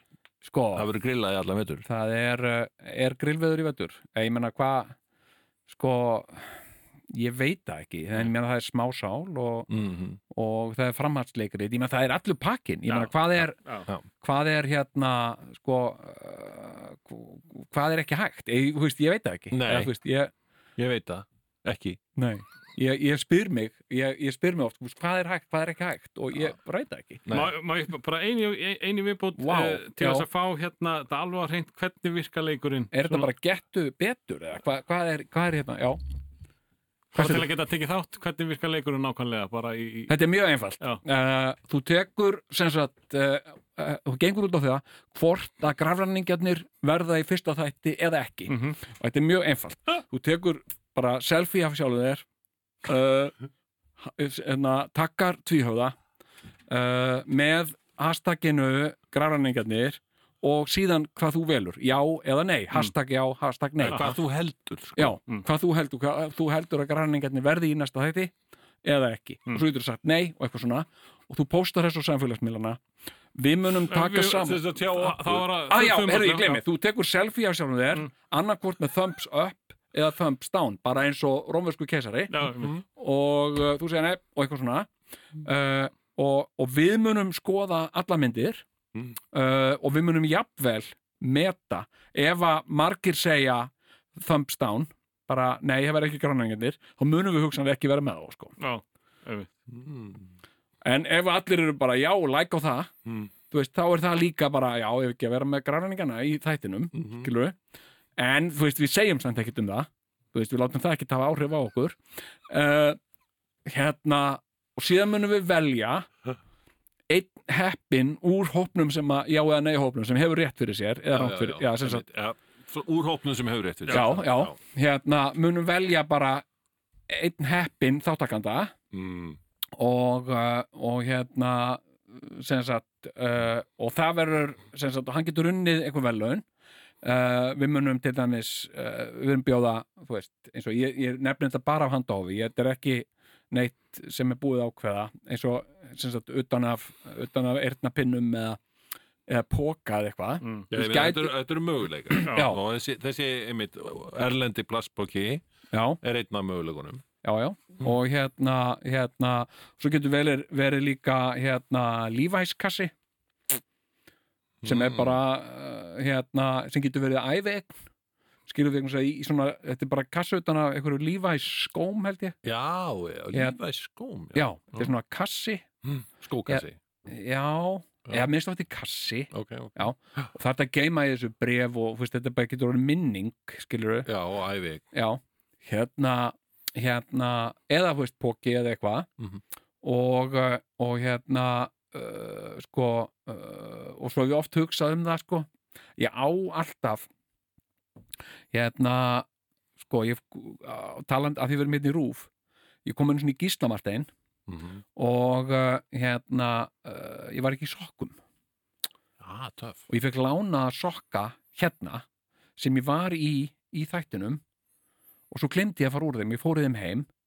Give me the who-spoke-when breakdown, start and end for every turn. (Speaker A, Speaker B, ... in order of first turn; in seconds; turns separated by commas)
Speaker A: 0.4-0.9, Speaker B: 0.7-1.9, Speaker A: 1.9-4.9, Speaker A: 5.7-6.6, Speaker A: 7.1-9.7, Speaker B: 9.7-10.2, Speaker A: 10.3-13.6, Speaker C: 12.9-13.9, Speaker A: 14.2-20.3, Speaker B: 19.5-19.9, Speaker B: 20.8-22.0, Speaker A: 22.1-27.2, Speaker B: 27.3-27.5, Speaker C: 27.3-33.3, Speaker A: 29.4-30.2, Speaker A: 32.9-36.0, Speaker C: 37.1-40.1, Speaker A: 37.1-37.5, Speaker A: 40.1-52.2, Speaker C: 48.5-48.8, Speaker A: 52.8-53.4, Speaker A: 54.0-56.0, Speaker A: 56.7-64.1, Speaker B: 63.8-65.2, Speaker C: 63.9-64.1, Speaker A: 65.0-72.8, Speaker A: 73.3-74.7, Speaker C: 73.9-76.6, Speaker B: 74.4-75.6, Speaker A: 75.7-84.9, Speaker C: 82.3-82.8, Speaker A: 85.4-88.6, Speaker A: 89.3-98.6, Speaker C: 98.6-99.5, Speaker B: 99.7-100.3, Speaker A: 100.8-102.9, Speaker A: 103.5-107.6, Speaker B: 107.0-107.3, Speaker A: 108.2-113.0, Speaker A: 113.7-116.1, Speaker A: 117.1-122.0, Speaker B: 121.1-124.5, Speaker C: 123.9-124.1, Speaker A: 123.9-126.4, Speaker A: 127.1-128.7, Speaker B: 128.9-129.4, Speaker A: 129.8-136.4, Speaker A: 137.0-148.6, Speaker A: 149.3-151.3, Speaker B: 150.7-155.4, Speaker A: 152.2-152.6, Speaker A: 155.7-156.0, Speaker B: 156.0-157.0, Speaker A: 157.2-162.9, Speaker B: 164.6-165.2, Speaker A: 164.6-167.8, Speaker A: 168.5-172.3, Speaker B: 172.4-174.9, Speaker A: 174.3-175.6, Speaker B: 175.8-176.8, Speaker A: 176.5-184.1, Speaker B: 179.3-180.2, Speaker B: 184.1-184.8, Speaker A: 184.9-189.1, Speaker A: 189.8-197.1, Speaker A: 198.5-199.3, Speaker A: 199.8-202.3, Speaker A: 202.8-204.1, Speaker B: 204.5-204.8, Speaker A: 204.9-208.2, Speaker B: 209.2-209.8, Speaker A: 209.9-212.1, Speaker A: 212.6-214.4, Speaker A: 215.3-217.1